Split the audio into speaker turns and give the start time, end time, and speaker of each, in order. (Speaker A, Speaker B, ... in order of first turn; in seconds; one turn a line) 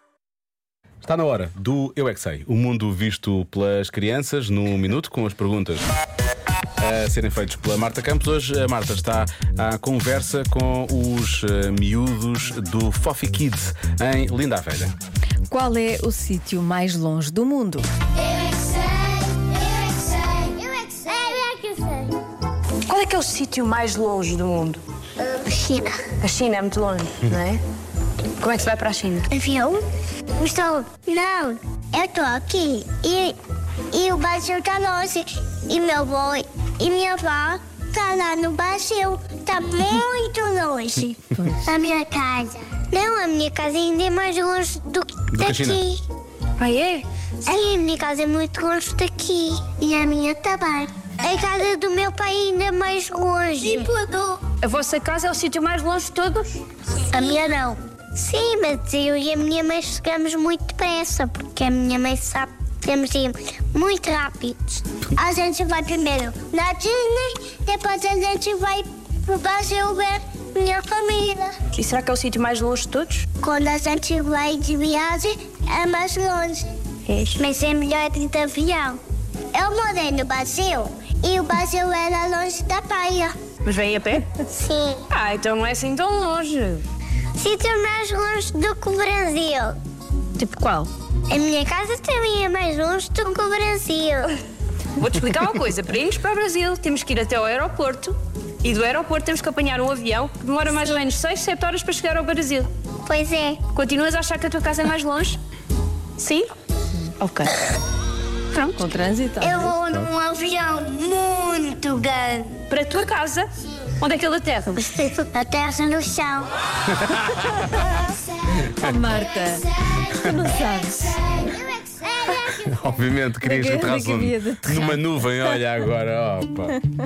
Speaker A: 1.0-5.9
Speaker A: 6.8-14.9
Speaker B: 15.5-17.9
Speaker C: 20.3-22.1
Speaker D: 22.9-24.8
Speaker C: 25.2-26.1
Speaker D: 26.2-27.6
Speaker D: 28.4-29.3
Speaker C: 29.3-29.8
Speaker C: 30.4-33.4
Speaker C: 33.9-46.0
Speaker A: 45.3-45.8
Speaker D: 46.6-47.1
Speaker C: 47.4-54.3
Speaker D: 54.5-56.6
Speaker C: 57.0-71.5
Speaker D: 71.7-73.2
Speaker C: 73.4-76.7
Speaker D: 77.1-77.4
Speaker C: 77.4-79.0
Speaker C: 79.5-83.3
Speaker D: 83.6-84.3
Speaker C: 84.5-85.0
Speaker D: 85.1-86.8
Speaker C: 87.4-89.8
Speaker B: 90.4-90.9
Speaker C: 91.3-94.3
Speaker D: 95.0-102.7
Speaker C: 103.1-103.6
Speaker D: 103.7-105.4
Speaker D: 106.2-106.5
Speaker B: 107.2-107.6
Speaker B: 108.6-109.8
Speaker C: 109.4-112.6
Speaker D: 112.7-113.5
Speaker D: 114.0-114.8
Speaker C: 114.8-116.5
Speaker A: 117.0-117.8
Speaker B: 118.8-121.2
Speaker C: 121.3-122.7
Speaker A: 122.5-126.8
Speaker B: 123.4-125.5